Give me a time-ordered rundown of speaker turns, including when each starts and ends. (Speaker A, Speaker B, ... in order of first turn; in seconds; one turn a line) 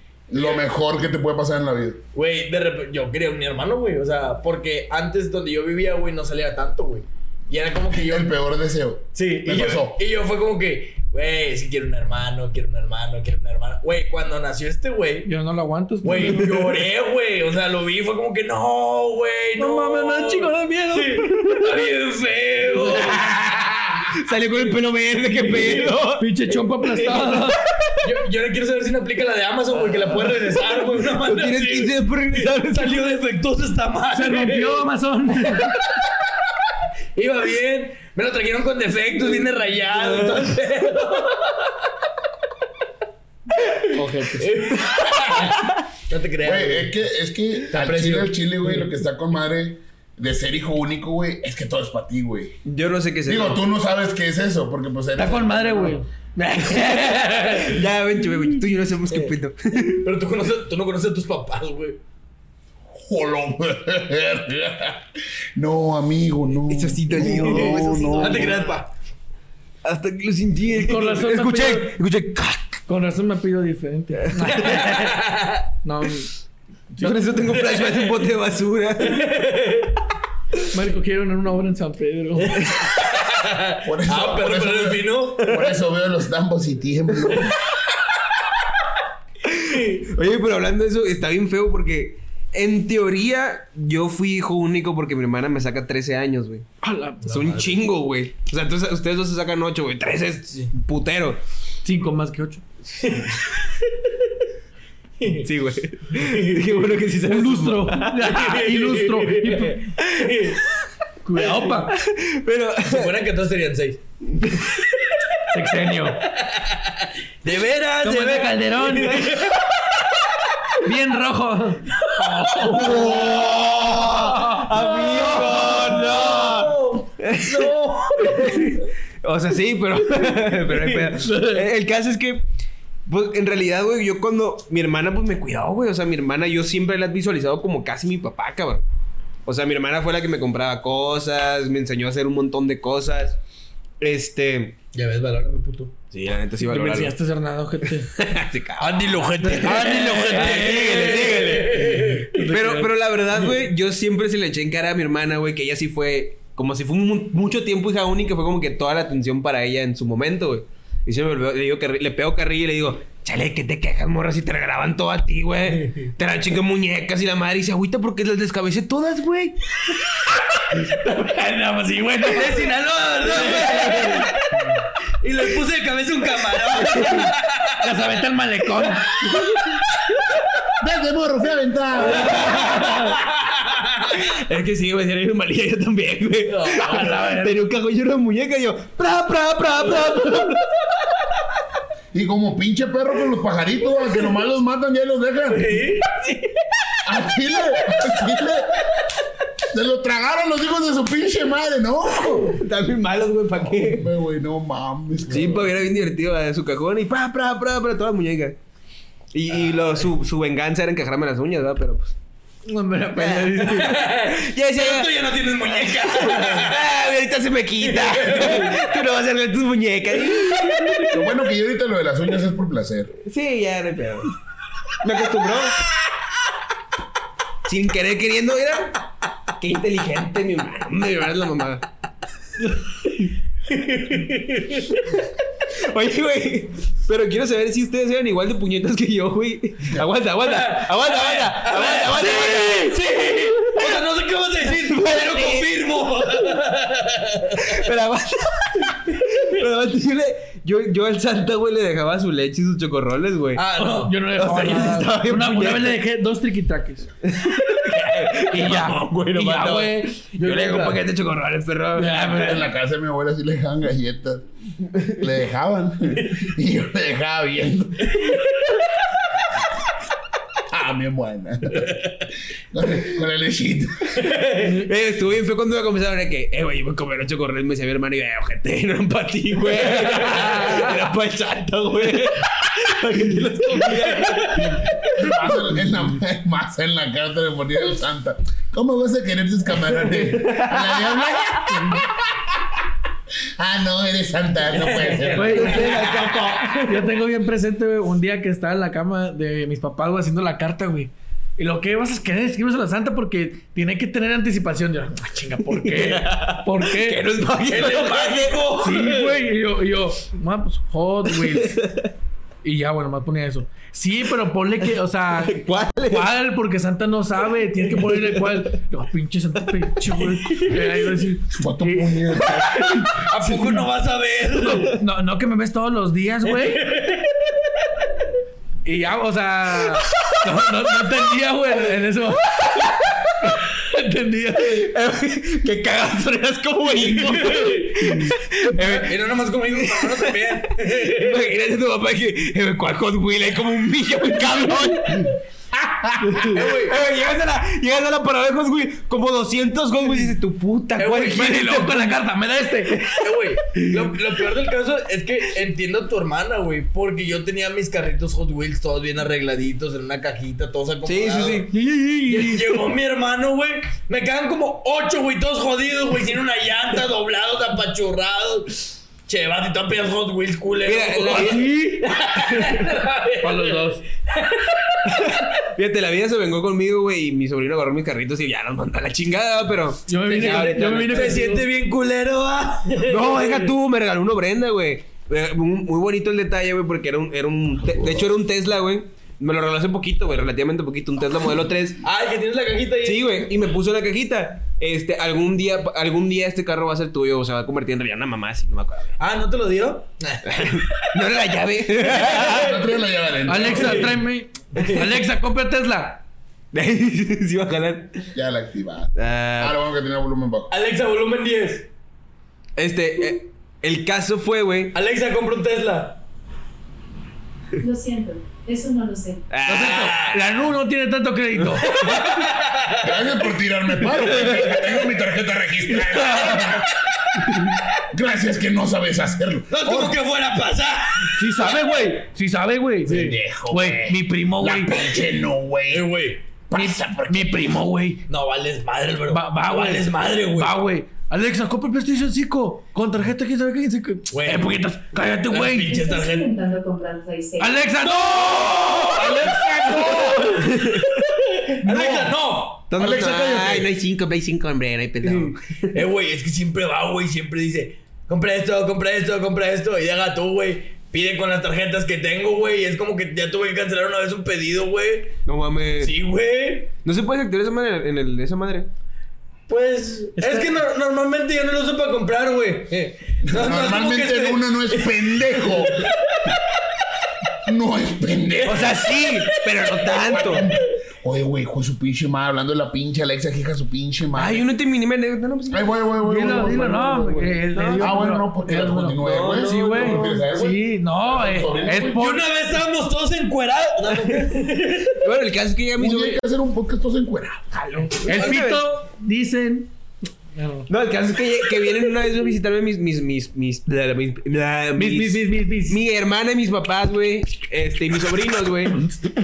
Speaker A: 0.3-2.0
Speaker B: 0.3-0.6
Speaker B: 2.1-8.3
Speaker A: 7.9-10.0
Speaker B: 9.2-15.3
Speaker C: 15.2-16.6
Speaker B: 16.0-23.2
Speaker C: 19.6-21.6
Speaker D: 22.9-26.2
Speaker B: 25.4-25.9
Speaker C: 26.2-27.6
Speaker B: 28.0-34.9
Speaker D: 31.2-33.0
Speaker C: 34.1-35.8
Speaker B: 37.2-41.7
Speaker D: 40.0-40.5
Speaker B: 43.6-46.9
Speaker C: 43.9-44.6
Speaker A: 46.4-52.6
Speaker B: 47.7-48.9
Speaker D: 52.6-53.6
Speaker A: 53.3-56.0
Speaker C: 55.2-57.7
Speaker D: 56.6-60.1
Speaker B: 59.9-62.0
Speaker A: 62.9-65.0
Speaker A: 65.6-68.6
Speaker D: 66.7-68.8
Speaker B: 67.4-68.9
Speaker D: 69.8-72.8
Speaker C: 70.7-72.0
Speaker C: 72.9-75.3
Speaker D: 74.3-74.9
Speaker B: 74.8-75.6
Speaker C: 75.8-76.3
Speaker C: 76.9-77.5
Speaker D: 77.0-79.5
Speaker B: 77.5-78.2
Speaker B: 79.0-80.0
Speaker C: 80.7-82.6
Speaker B: 82.4-85.5
Speaker D: 82.6-82.9
Speaker A: 83.8-87.6
Speaker D: 85.4-85.8
Speaker D: 89.4-96.7
Speaker C: 96.8-97.3
Speaker B: 97.2-97.8
Speaker D: 97.3-101.4
Speaker C: 101.8-102.6
Speaker D: 103.0-103.3
Speaker B: 103.0-103.6
Speaker B: 105.2-105.5
Speaker D: 105.4-108.3
Speaker B: 106.1-106.9
Speaker C: 107.2-109.9
Speaker B: 108.4-110.6
Speaker D: 110.0-110.6
Speaker C: 111.2-112.0
Speaker D: 111.9-113.2
Speaker B: 112.8-114.0
Speaker D: 114.4-114.7
Speaker C: 115.5-116.2
Speaker B: 116.4-119.7
Speaker C: 118.0-119.2
Speaker C: 120.8-123.2
Speaker B: 122.6-123.8
Speaker D: 122.6-127.7
Speaker C: 124.0-125.8
Speaker B: 124.8-128.8
Speaker D: 128.3-132.4
Speaker C: 128.4-128.7
Speaker B: 130.2-131.1
Speaker C: 131.2-131.7
Speaker D: 133.1-138.8
Speaker D: 139.4-143.4
Speaker D: 144.0-144.8
Speaker B: 144.9-145.9
Speaker D: 146.1-147.2
Speaker C: 146.6-148.1
Speaker D: 148.0-169.6
Speaker B: 148.8-152.8
Speaker C: 149.4-151.4
Speaker C: 152.0-152.9
Speaker B: 165.7-166.1
Speaker C: 170.8-172.7
Speaker B: 172.2-174.6
Speaker C: 173.3-174.3
Speaker D: 173.5-174.2
Speaker B: 175.2-177.8
Speaker D: 177.0-177.3
Speaker C: 177.8-179.2
Speaker A: 180.8-182.4
Speaker C: 182.3-183.2
Speaker B: 183.5-184.0
Speaker D: 184.1-190.8
Speaker B: 186.5-187.2
Speaker C: 186.8-187.6
Speaker A: 192.1-195.8
Speaker B: 195.5-196.3
Speaker A: 197.1-198.8
Speaker A: 199.7-202.6
Speaker D: 202.4-204.1
Speaker A: 203.6-205.7
Speaker D: 205.3-208.6
Speaker D: 209.3-212.2
Speaker C: 212.7-214.1
Speaker D: 213.2-215.1
Speaker B: 213.7-216.9
Speaker D: 215.8-221.2
Speaker B: 217.8-218.8
Speaker A: 221.1-223.2
Speaker D: 223.2-224.3
Speaker D: 225.0-225.8
Speaker D: 227.7-231.8
Speaker B: 233.7-235.0
Speaker D: 235.7-243.0
Speaker B: 240.4-247.8
Speaker D: 244.8-245.7
Speaker D: 247.6-253.6
Speaker B: 253.6-254.2
Speaker C: 253.8-257.1
Speaker D: 254.3-256.0
Speaker D: 257.2-262.5
Speaker C: 258.5-261.0
Speaker C: 261.9-262.7
Speaker A: 262.3-264.4
Speaker A: 265.1-268.4
Speaker B: 268.1-268.9
Speaker A: 270.7-272.1
Speaker A: 272.7-274.4
Speaker B: 274.2-274.8
Speaker D: 274.6-284.8
Speaker B: 280.0-280.4
Speaker B: 283.9-284.8
Speaker A: 284.6-292.6
Speaker D: 290.1-291.7
Speaker A: 293.6-296.4
Speaker B: 294.7-296.8
Speaker C: 295.4-307.2
Speaker D: 295.6-296.8
Speaker D: 305.6-308.6
Speaker B: 307.7-309.5
Speaker C: 308.8-311.8
Speaker D: 311.4-312.1
Speaker C: 312.6-323.9
Speaker D: 315.3-316.3
Speaker D: 318.0-318.6
Speaker A: 321.5-322.9
Speaker B: 323.3-325.0
Speaker C: 324.6-326.9
Speaker B: 326.5-327.4
Speaker C: 328.9-332.9
Speaker C: 333.4-334.9
Speaker D: 334.7-345.3
Speaker B: 337.1-338.0
Speaker B: 338.8-341.5
Speaker A: 345.7-346.5
Speaker D: 346.2-352.2
Speaker B: 346.5-347.0
Speaker B: 351.0-351.4
Speaker C: 351.1-353.2
Speaker B: 353.1-361.7
Speaker D: 361.1-361.7
Speaker C: 361.7-362.7
Speaker B: 362.3-375.0
Speaker D: 370.8-371.7
Speaker C: 371.2-372.9
Speaker C: 373.4-374.1
Speaker D: 375.1-381.4
Speaker C: 380.1-381.6
Speaker B: 380.4-383.7
Speaker D: 383.0-392.0
Speaker B: 392.0-393.5
Speaker D: 393.0-399.1
Speaker B: 399.2-401.2
Speaker D: 400.4-402.8
Speaker B: 402.0-402.9
Speaker A: 402.4-404.2
Speaker C: 403.5-406.2
Speaker B: 403.6-404.1
Speaker B: 404.7-405.1
Speaker D: 406.7-408.2
Speaker A: 408.3-410.7
Speaker D: 409.2-409.8
Speaker B: 410.7-411.9
Speaker D: 412.8-414.9
Speaker B: 414.9-416.2
Speaker E: 417.8-419.4
Speaker D: 419.5-420.4
Speaker C: 419.6-422.3
Speaker B: 419.9-420.4
Speaker D: 421.6-422.4
Speaker B: 422.0-423.2
Speaker A: 423.0-426.9
Speaker C: 425.9-426.8
Speaker A: 428.1-430.2
Speaker B: 429.7-431.7
Speaker C: 431.4-435.1
Speaker B: 433.1-433.4
Speaker A: 433.1-436.1
Speaker B: 435.9-436.4
Speaker A: 436.7-437.6
Speaker C: 436.7-438.2
Speaker B: 438.3-440.8
Speaker C: 439.3-446.0
Speaker B: 444.3-444.8
Speaker B: 445.5-446.5
Speaker E: 445.9-448.0
Speaker C: 447.6-450.7
Speaker B: 448.2-449.3
Speaker A: 448.5-450.7
Speaker D: 450.5-451.2
Speaker B: 451.5-453.9
Speaker A: 451.8-452.4
Speaker D: 452.9-456.0
Speaker A: 453.0-453.8
Speaker B: 455.2-465.4
Speaker D: 465.5-466.1
Speaker B: 466.0-466.9
Speaker D: 467.0-468.9
Speaker B: 469.7-476.6
Speaker C: 470.4-470.8
Speaker A: 473.4-476.1
Speaker A: 477.6-479.1
Speaker B: 478.6-480.2
Speaker D: 478.6-480.7
Speaker A: 480.2-484.7
Speaker D: 484.4-486.8
Speaker A: 485.7-492.3
Speaker C: 486.2-492.4
Speaker D: 487.7-488.2
Speaker D: 489.2-490.5
Speaker B: 492.2-495.2
Speaker D: 494.1-494.6
Speaker D: 495.2-496.4
Speaker A: 496.0-497.7
Speaker D: 497.7-498.8
Speaker C: 498.2-499.9
Speaker C: 500.5-500.9
Speaker D: 500.9-509.1
Speaker C: 505.0-506.0